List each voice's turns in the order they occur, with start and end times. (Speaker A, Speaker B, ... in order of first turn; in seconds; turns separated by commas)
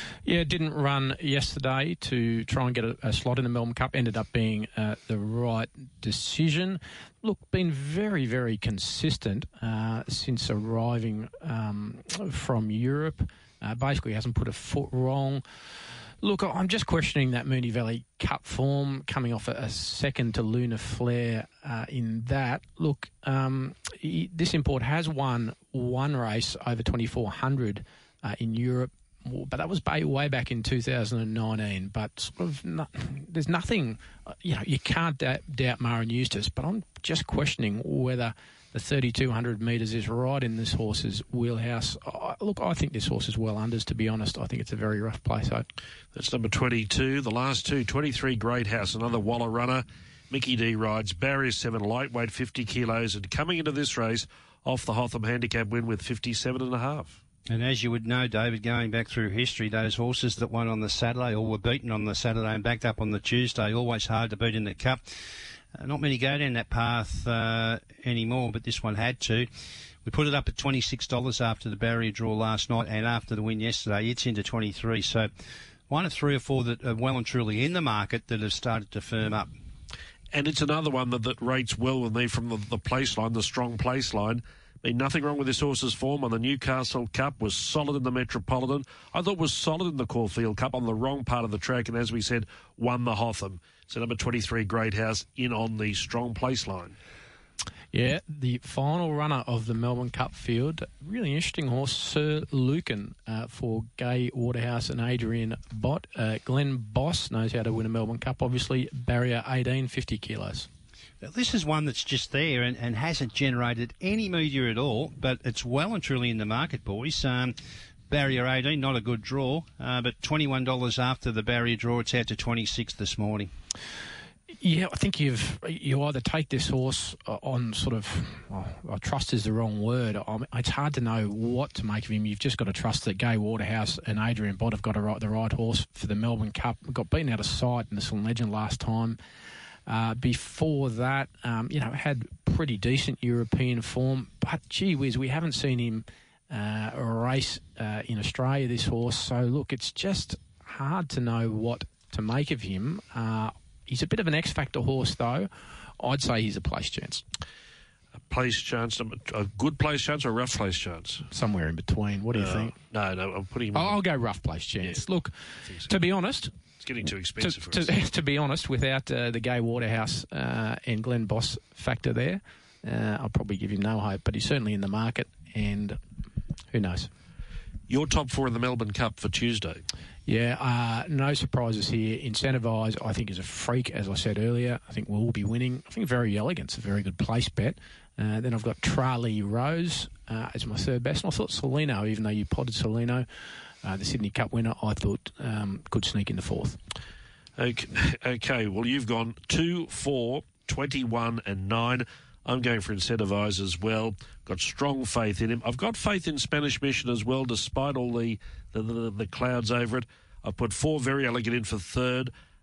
Speaker A: 0.3-15.4, Speaker A: 16.2-45.7, Speaker B: 46.1-57.2, Speaker C: 57.5-69.5, Speaker C: 70.0-75.3, Speaker C: 75.9-79.5, Speaker B: 80.3-97.0, Speaker A: 97.9-110.7, Speaker C: 111.2-117.6, Speaker C: 118.1-123.5, Speaker A: 124.6-139.2, Speaker A: 139.9-157.2, Speaker B: 158.3-161.3, Speaker A: 161.3-162.7, Speaker B: 162.4-164.0, Speaker A: 163.7-166.5, Speaker B: 166.8-167.9, Speaker A: 167.4-176.0, Speaker A: 176.7-177.1, Speaker B: 177.9-179.8, Speaker A: 180.3-193.3, Speaker A: 193.8-196.8, Speaker B: 197.6-212.3